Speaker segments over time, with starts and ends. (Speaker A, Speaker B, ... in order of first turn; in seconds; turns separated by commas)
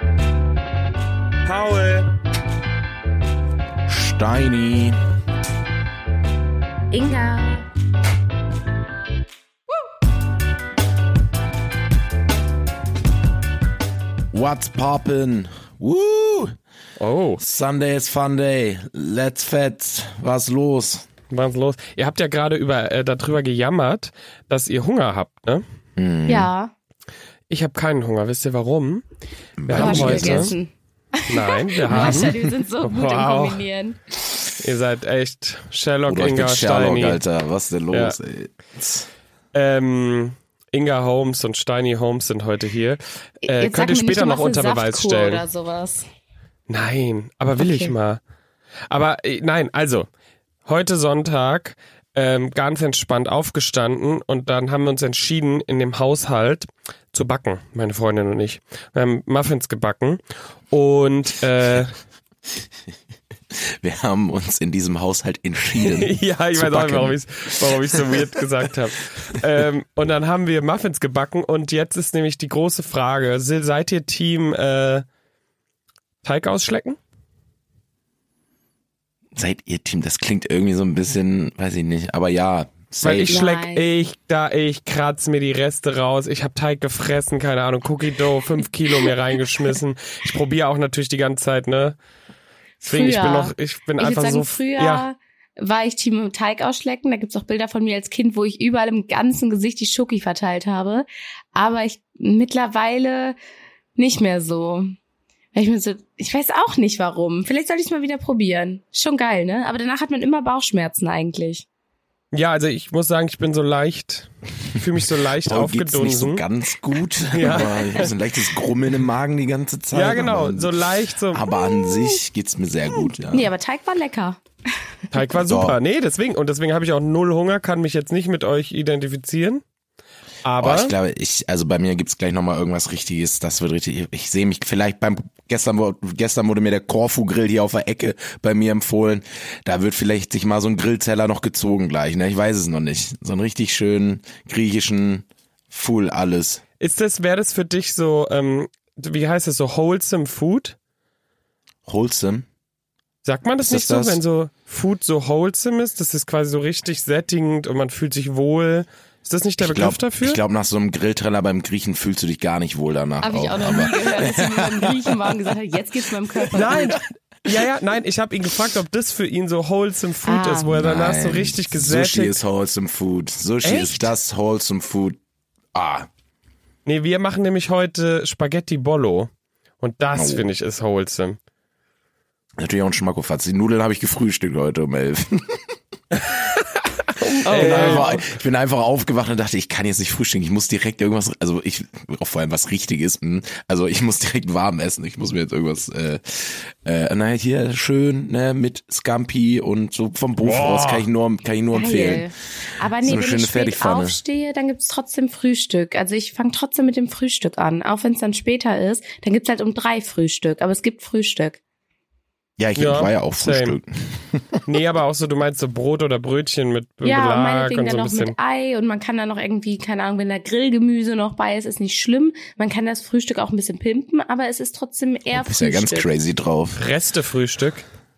Speaker A: 1.4-2.1, Speaker B: 3.9-5.0, Speaker C: 6.9-7.7, Speaker B: 14.3-16.6, Speaker A: 17.0-17.4, Speaker B: 17.4-21.1, Speaker A: 21.3-25.6, Speaker B: 26.0-26.5, Speaker C: 26.3-26.7, Speaker A: 27.5-29.0, Speaker B: 29.6-30.5, Speaker A: 29.7-30.5, Speaker C: 29.7-34.0, Speaker A: 31.3-33.6, Speaker B: 31.9-32.4, Speaker A: 34.6-37.2, Speaker B: 36.1-39.0, Speaker A: 37.9-38.2, Speaker A: 39.5-45.4, Speaker C: 43.4-46.0, Speaker A: 46.7-48.2, Speaker C: 47.6-47.9, Speaker A: 48.9-50.1, Speaker A: 50.6-61.9, Speaker B: 63.8-68.4, Speaker A: 65.8-75.0, Speaker A: 76.2-77.0, Speaker B: 79.3-83.4, Speaker A: 83.0-92.0, Speaker C: 83.3-83.8, Speaker C: 92.8-103.3, Speaker A: 92.8-95.0, Speaker C: 104.0-104.9, Speaker C: 105.5-111.7, Speaker A: 112.3-116.4, Speaker B: 115.4-120.7, Speaker A: 117.3-118.1, Speaker C: 117.5-118.0, Speaker A: 119.9-121.5, Speaker B: 121.3-123.5, Speaker C: 123.3-124.4, Speaker A: 125.1-129.6, Speaker B: 125.3-125.8, Speaker A: 130.4-130.9, Speaker B: 130.6-146.6, Speaker A: 146.8-150.8, Speaker B: 151.8-152.4, Speaker A: 153.2-160.4, Speaker B: 153.6-154.2, Speaker B: 159.6-165.3, Speaker C: 163.2-167.0, Speaker B: 166.3-166.9, Speaker A: 166.5-172.4, Speaker C: 170.2-170.7, Speaker B: 170.7-175.2, Speaker A: 173.6-174.1, Speaker B: 175.7-176.1, Speaker A: 176.8-181.4, Speaker B: 180.1-180.5, Speaker B: 182.6-185.7, Speaker A: 186.1-188.2, Speaker C: 187.4-188.2, Speaker B: 187.5-202.3, Speaker A: 200.4-201.1, Speaker C: 201.7-211.6, Speaker B: 203.0-204.2, Speaker B: 212.6-214.6, Speaker A: 212.8-213.8, Speaker A: 214.7-218.3, Speaker C: 217.0-226.1, Speaker B: 225.3-226.8, Speaker A: 226.8-227.8